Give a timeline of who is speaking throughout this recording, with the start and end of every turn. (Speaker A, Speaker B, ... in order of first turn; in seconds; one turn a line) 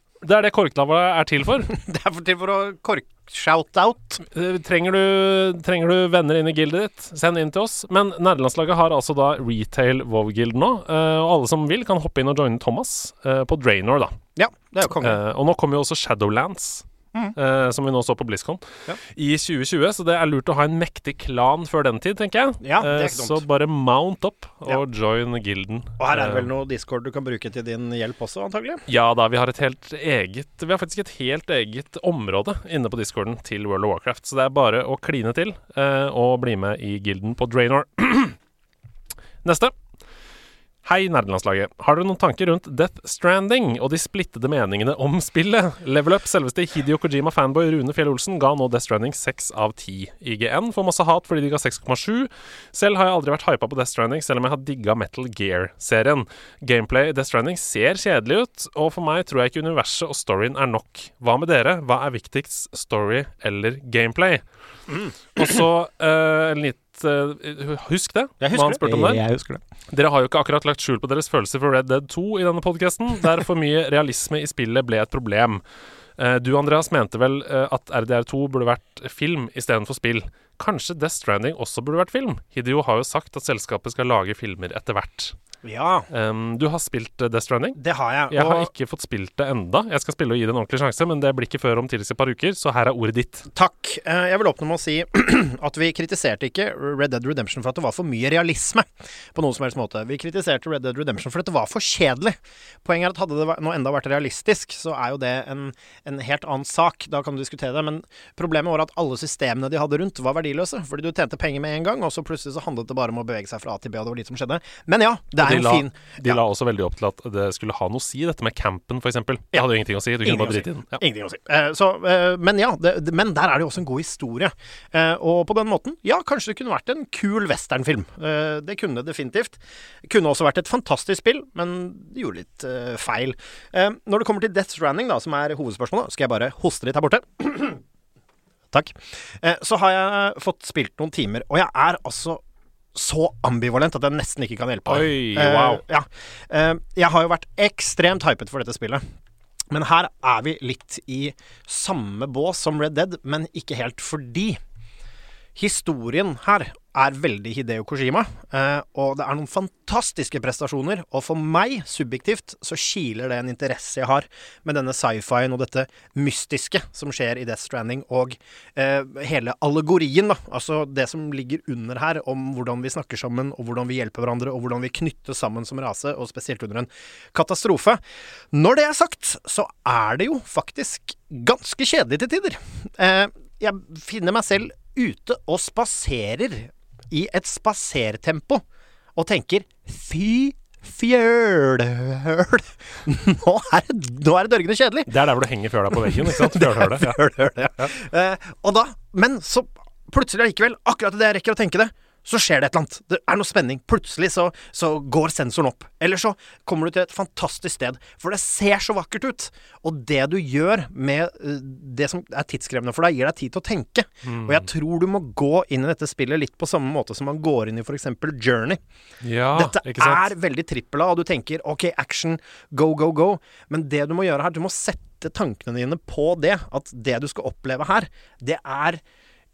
Speaker A: 0.2-1.7
Speaker B: 1.7-4.2
Speaker A: 4.3-14.1
Speaker B: 14.3-15.2
Speaker A: 14.9-16.8
Speaker A: 17.4-18.6
Speaker A: 19.1-26.5
Speaker B: 22.6-23.4
Speaker B: 26.0-28.8
Speaker A: 28.9-38.4
Speaker A: 39.4-39.7
Speaker A: 40.8-64.4
Speaker B: 64.9-65.5
Speaker A: 65.3-69.2
Speaker B: 68.4-69.6
Speaker A: 69.9-75.6
Speaker A: 76.2-85.3
Speaker B: 85.6-86.1
Speaker A: 86.1-87.8
Speaker B: 87.8-88.7
Speaker A: 88.3-93.5
Speaker B: 93.5-116.4
Speaker A: 115.4-121.0
Speaker B: 120.2-137.8
Speaker B: 138.7-142.4
Speaker B: 142.9-149.0
Speaker A: 144.9-145.8
Speaker B: 149.7-154.6
Speaker B: 155.6-188.6
Speaker B: 189.2-195.1
Speaker A: 195.1-197.2
Speaker B: 195.9-218.8
Speaker A: 214.3-214.7
Speaker A: 219.2-220.3
Speaker B: 219.5-229.0